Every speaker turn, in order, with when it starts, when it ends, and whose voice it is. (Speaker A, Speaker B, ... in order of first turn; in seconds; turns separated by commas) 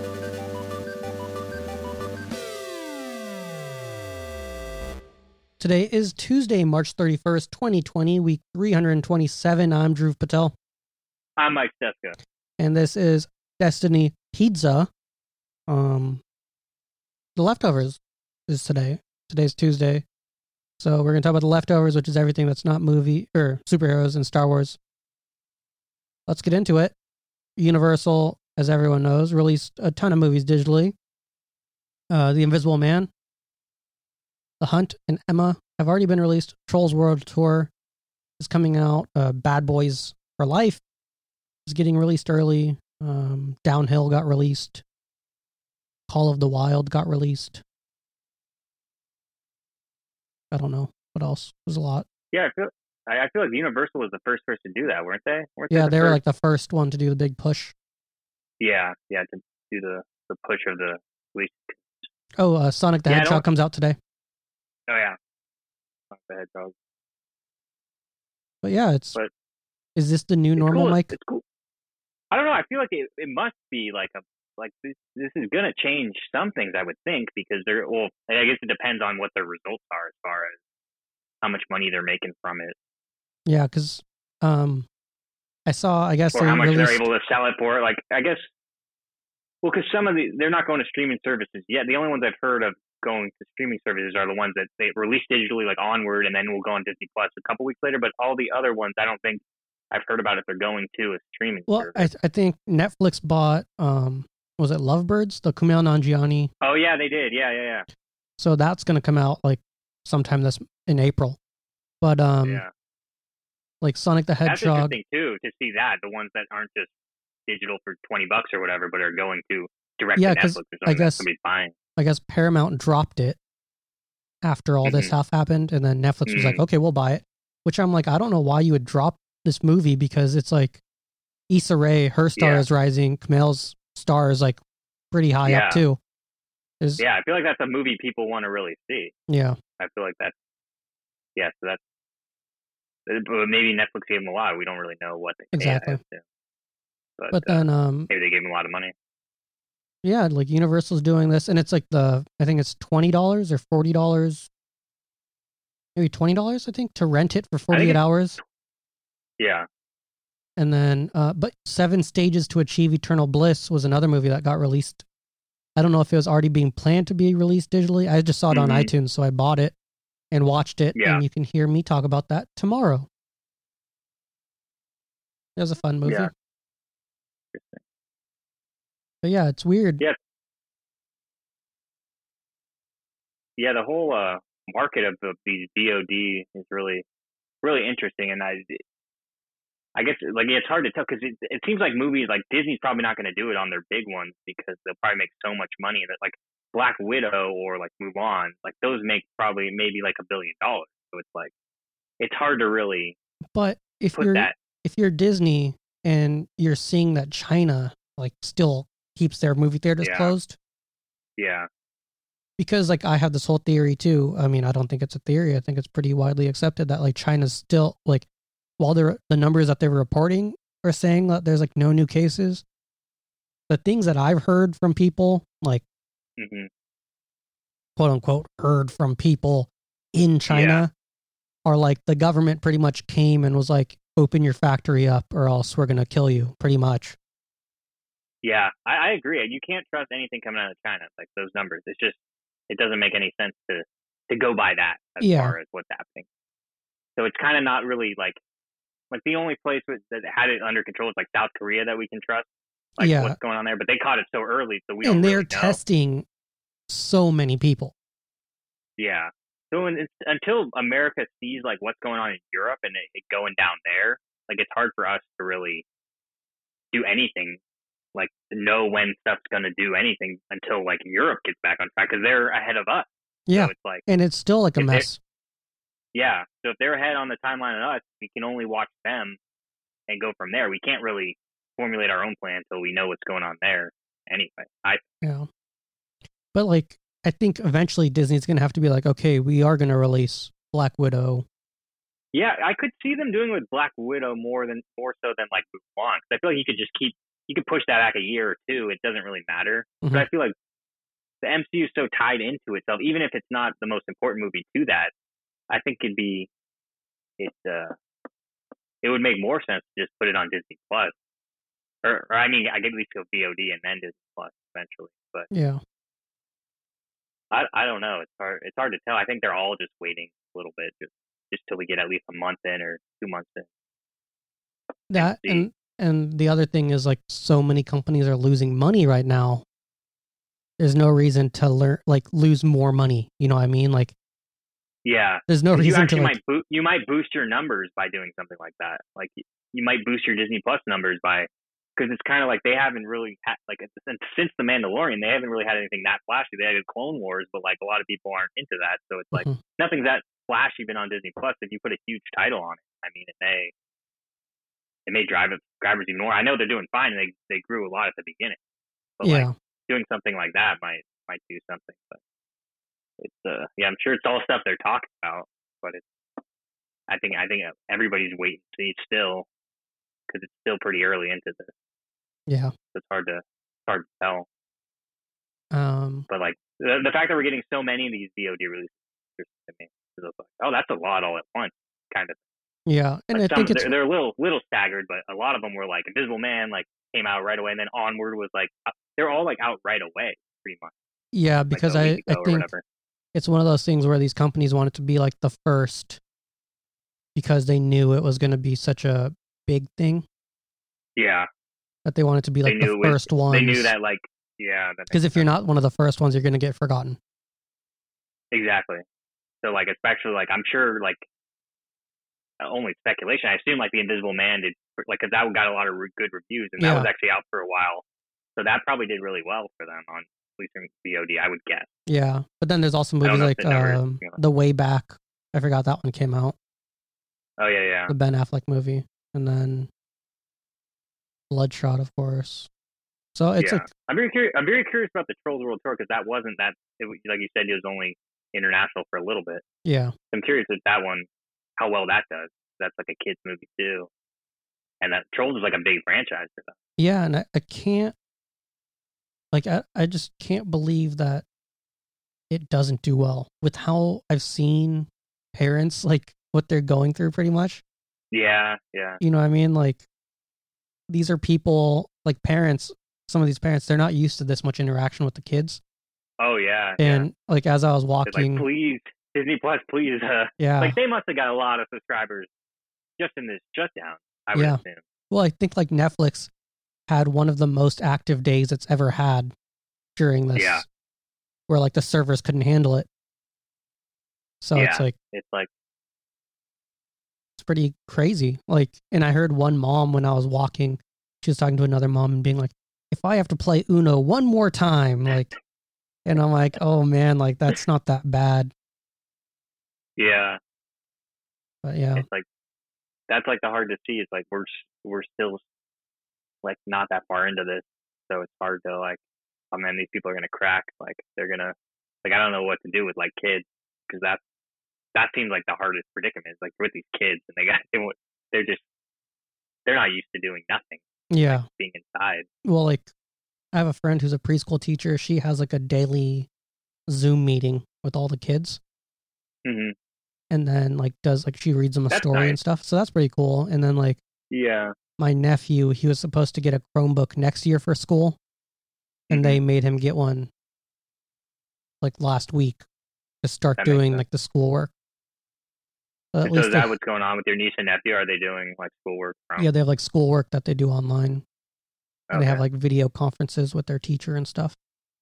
Speaker A: 5.6-10.5, Speaker B: 11.4-12.2, Speaker A: 12.6-14.9, Speaker A: 15.7-16.2, Speaker A: 17.4-20.1, Speaker A: 20.8-24.8, Speaker A: 26.3-26.9, Speaker A: 27.6-30.9, Speaker A: 32.1-33.1, Speaker A: 34.6-37.7, Speaker A: 38.4-40.8, Speaker A: 41.7-44.8, Speaker A: 46.1-47.6, Speaker A: 50.5-52.1, Speaker B: 52.3-56.2, Speaker A: 55.7-57.7, Speaker B: 58.6-62.1, Speaker A: 62.4-64.0, Speaker B: 63.1-63.5, Speaker B: 64.9-65.2, Speaker B: 66.1-66.7, Speaker A: 68.6-69.2, Speaker A: 70.0-71.1, Speaker B: 70.6-71.4, Speaker B: 72.3-80.6, Speaker B: 81.4-82.8, Speaker A: 83.5-84.9, Speaker A: 85.7-87.1, Speaker B: 86.3-88.5, Speaker B: 89.6-102.1, Speaker A: 101.7-106.5, Speaker B: 106.6-107.9, Speaker A: 108.4-111.4, Speaker A: 112.0-112.6, Speaker B: 112.5-112.7, Speaker A: 113.8-115.0, Speaker B: 114.5-116.9, Speaker B: 117.5-121.7, Speaker A: 120.2-121.3, Speaker A: 122.0-123.4, Speaker A: 124.4-130.8, Speaker B: 124.8-125.2, Speaker B: 126.3-126.6, Speaker A: 131.5-136.0, Speaker B: 132.3-132.7, Speaker B: 135.4-135.8, Speaker B: 137.0-139.1, Speaker A: 139.3-139.6, Speaker B: 139.8-140.3, Speaker B: 141.3-141.8, Speaker B: 143.1-146.2, Speaker A: 145.5-146.0, Speaker B: 147.2-148.9, Speaker A: 147.3-148.1, Speaker A: 150.0-154.5, Speaker A: 155.9-158.4, Speaker B: 157.7-158.0, Speaker B: 159.4-159.6, Speaker A: 160.6-165.0, Speaker A: 165.8-169.8, Speaker B: 168.5-168.9, Speaker A: 170.3-173.1, Speaker B: 170.9-171.2, Speaker A: 175.6-176.3, Speaker B: 176.0-176.3, Speaker B: 177.5-177.8, Speaker A: 179.2-180.0, Speaker B: 183.6-187.0, Speaker B: 187.6-188.8, Speaker B: 189.9-201.5, Speaker B: 202.2-203.2, Speaker A: 203.5-210.6, Speaker B: 204.1-204.5, Speaker B: 210.0-210.3, Speaker B: 211.4-211.7, Speaker A: 212.6-218.3, Speaker A: 218.8-222.6, Speaker A: 223.7-225.8, Speaker B: 226.4-226.7, Speaker A: 228.0-230.9, Speaker B: 230.5-230.8, Speaker A: 231.7-237.2, Speaker B: 238.4-242.2, Speaker B: 242.7-246.3, Speaker A: 245.2-245.6, Speaker B: 247.2-248.4, Speaker B: 249.1-255.8, Speaker A: 253.0-253.3, Speaker A: 255.0-256.2, Speaker A: 256.9-257.9, Speaker B: 259.0-265.9, Speaker B: 266.9-267.6, Speaker B: 268.1-274.1, Speaker A: 273.5-275.2, Speaker B: 274.8-275.1, Speaker B: 276.1-279.4, Speaker B: 280.1-285.0, Speaker A: 285.2-285.5, Speaker A: 286.5-291.5, Speaker B: 292.3-300.5, Speaker A: 300.0-300.3, Speaker B: 301.4-305.1, Speaker B: 305.7-306.5, Speaker B: 307.4-308.0, Speaker B: 309.0-311.1, Speaker B: 312.0-315.5, Speaker A: 315.5-315.8, Speaker B: 317.5-323.7, Speaker A: 325.1-329.6, Speaker B: 325.1-325.7, Speaker A: 330.8-334.1, Speaker B: 335.1-353.7, Speaker A: 335.5-336.4, Speaker A: 349.3-349.6, Speaker B: 355.1-358.6, Speaker B: 359.2-362.2, Speaker A: 359.2-359.5, Speaker B: 363.2-366.1, Speaker B: 367.1-369.5, Speaker B: 370.3-371.7, Speaker A: 372.5-372.7, Speaker B: 372.9-374.5, Speaker A: 375.7-376.3, Speaker B: 376.3-382.4, Speaker A: 382.9-383.9, Speaker B: 383.3-390.9, Speaker A: 391.3-392.7, Speaker B: 391.7-392.8, Speaker A: 393.3-396.2, Speaker A: 397.4-400.2, Speaker B: 401.2-401.5, Speaker A: 402.1-403.9, Speaker B: 402.6-405.5, Speaker A: 405.1-407.2, Speaker B: 408.5-409.0, Speaker B: 409.6-411.2, Speaker B: 412.6-418.0, Speaker A: 416.8-417.1, Speaker B: 418.6-421.9, Speaker A: 422.1-426.6, Speaker B: 423.2-424.4, Speaker B: 427.6-428.1, Speaker A: 428.1-429.9, Speaker A: 431.5-432.7, Speaker A: 433.4-433.9, Speaker B: 433.6-439.6, Speaker A: 439.9-440.1, Speaker B: 440.3-444.1, Speaker B: 445.0-446.8, Speaker A: 447.0-448.1, Speaker A: 449.5-451.4, Speaker A: 452.5-457.8, Speaker B: 458.3-459.2, Speaker A: 459.2-460.1, Speaker A: 461.1-465.8, Speaker B: 466.4-467.3, Speaker A: 467.0-468.7, Speaker B: 468.2-472.5, Speaker A: 470.6-471.0, Speaker B: 473.2-475.0, Speaker A: 474.5-476.5, Speaker A: 477.1-479.5, Speaker A: 480.2-480.9, Speaker B: 480.6-480.8, Speaker A: 481.7-483.1, Speaker A: 484.6-485.1, Speaker B: 484.8-485.7, Speaker A: 487.6-495.5, Speaker A: 496.2-498.7, Speaker B: 500.2-500.6, Speaker A: 501.8-502.3, Speaker B: 502.1-502.4, Speaker B: 503.3-505.6, Speaker B: 506.6-509.2, Speaker B: 509.7-514.4, Speaker B: 515.1-518.8, Speaker B: 519.9-522.5, Speaker A: 521.3-521.6, Speaker A: 522.6-523.1, Speaker A: 523.7-526.5, Speaker A: 527.1-528.8, Speaker B: 529.6-529.9, Speaker A: 530.5-534.2, Speaker B: 532.1-532.6, Speaker B: 534.5-534.9, Speaker A: 535.2-538.4, Speaker B: 539.3-539.6, Speaker A: 539.3-540.5, Speaker A: 542.0-542.8, Speaker A: 543.4-544.9, Speaker B: 543.8-544.2, Speaker A: 546.3-546.9, Speaker B: 546.4-549.7, Speaker A: 549.6-551.4, Speaker B: 552.3-552.6, Speaker A: 552.3-554.8